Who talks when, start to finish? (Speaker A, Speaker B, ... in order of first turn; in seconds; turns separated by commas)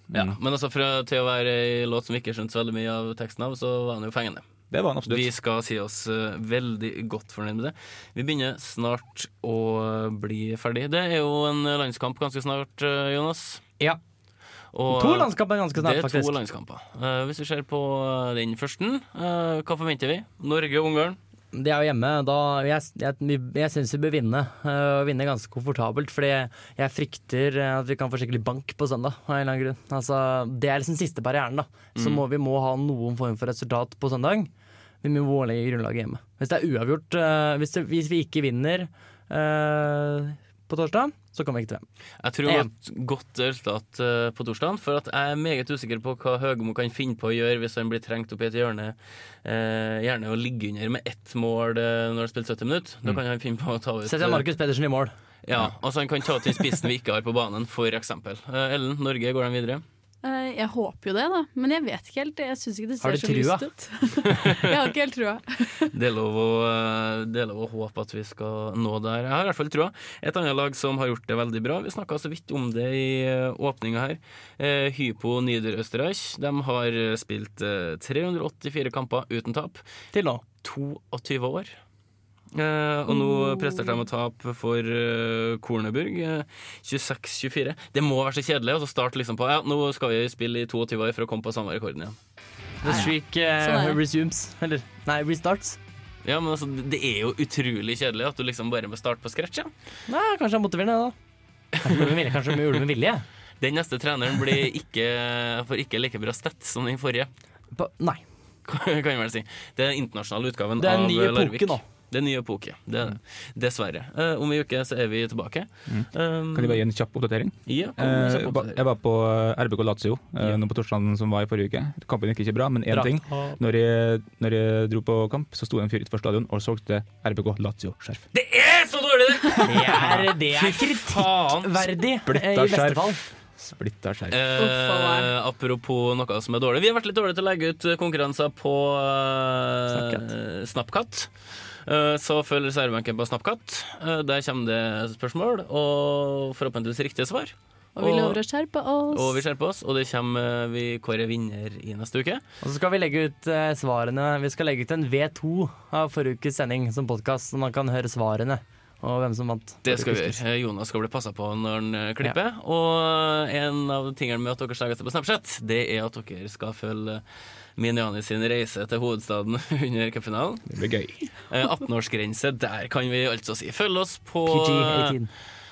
Speaker A: 0.1-0.4, Speaker B: 0.1-4.4, Speaker A: 4.7-5.3, Speaker B: 5.1-13.6, Speaker B: 14.7-21.2, Speaker C: 14.9-16.3, Speaker C: 21.5-34.5, Speaker B: 32.0-32.2, Speaker C: 35.0-41.9, Speaker B: 42.2-54.5, Speaker C: 42.5-42.7, Speaker C: 54.1-55.1, Speaker B: 55.5-59.8, Speaker D: 60.2-65.9, Speaker C: 63.0-63.7, Speaker B: 65.9-79.8, Speaker C: 80.1-80.4, Speaker B: 80.6-81.8, Speaker B: 82.5-92.2, Speaker C: 92.8-95.8, Speaker D: 92.8-94.0, Speaker B: 96.2-99.7, Speaker C: 100.1-101.2, Speaker C: 101.8-103.2, Speaker B: 103.6-107.3, Speaker C: 107.8-108.2, Speaker B: 108.7-116.8, Speaker C: 110.8-111.8, Speaker A: 115.9-128.2, Speaker B: 117.7-118.8, Speaker C: 122.9-123.6, Speaker B: 128.3-131.9, Speaker C: 129.6-133.2, Speaker A: 132.2-134.4, Speaker B: 134.3-148.4, Speaker D: 134.6-135.3, Speaker C: 139.9-140.2, Speaker D: 148.0-149.4, Speaker B: 149.1-152.4, Speaker C: 152.6-160.4, Speaker B: 159.8-167.2, Speaker B: 167.8-170.7, Speaker A: 170.7-171.3, Speaker B: 171.5-175.2, Speaker C: 174.5-175.3